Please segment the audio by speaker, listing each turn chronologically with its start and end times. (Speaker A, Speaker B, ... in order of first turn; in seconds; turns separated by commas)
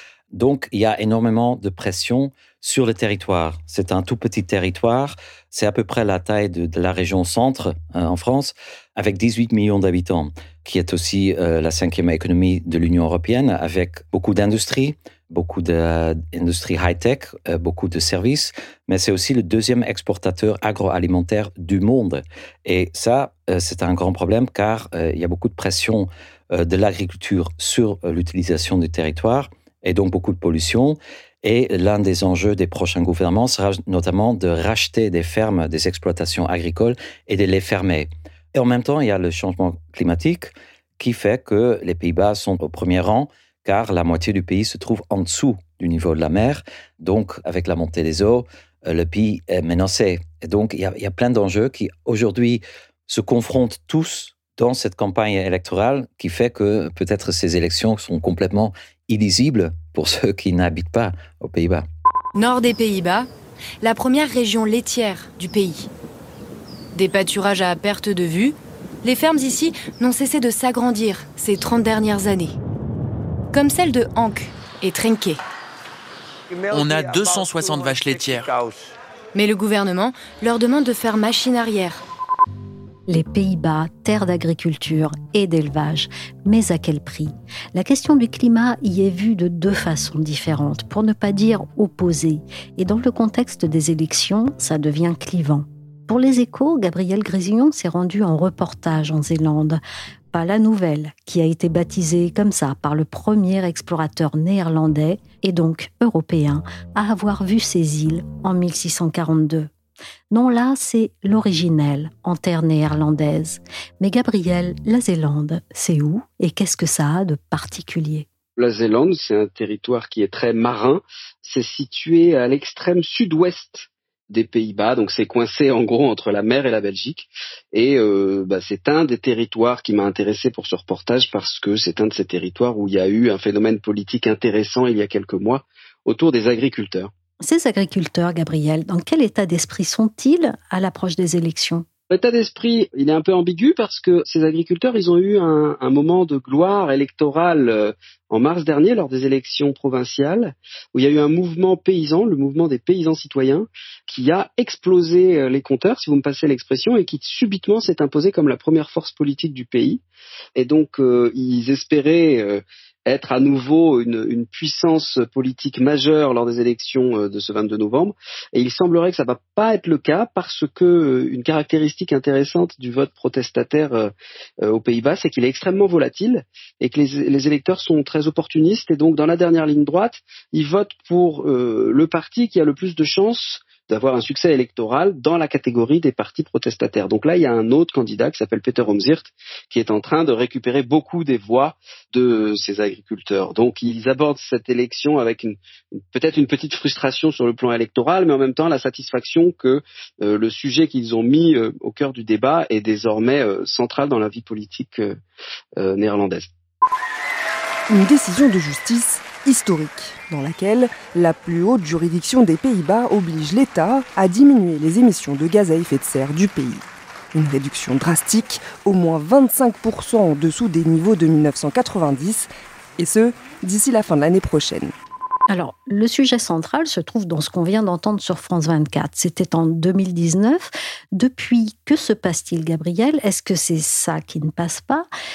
Speaker A: 0.3-61.9, Speaker B: 62.4-63.3, Speaker B: 63.8-65.9, Speaker B: 67.0-72.6, Speaker B: 73.5-75.4, Speaker C: 76.5-78.9, Speaker B: 79.3-82.0, Speaker D: 83.1-99.8, Speaker D: 100.3-109.7, Speaker D: 110.3-118.3, Speaker E: 118.6-137.1, Speaker D: 137.4-141.9, Speaker E: 142.1-160.0, Speaker E: 160.6-205.2, Speaker E: 205.8-206.5, Speaker F: 207.9-224.9, Speaker D: 225.5-235.1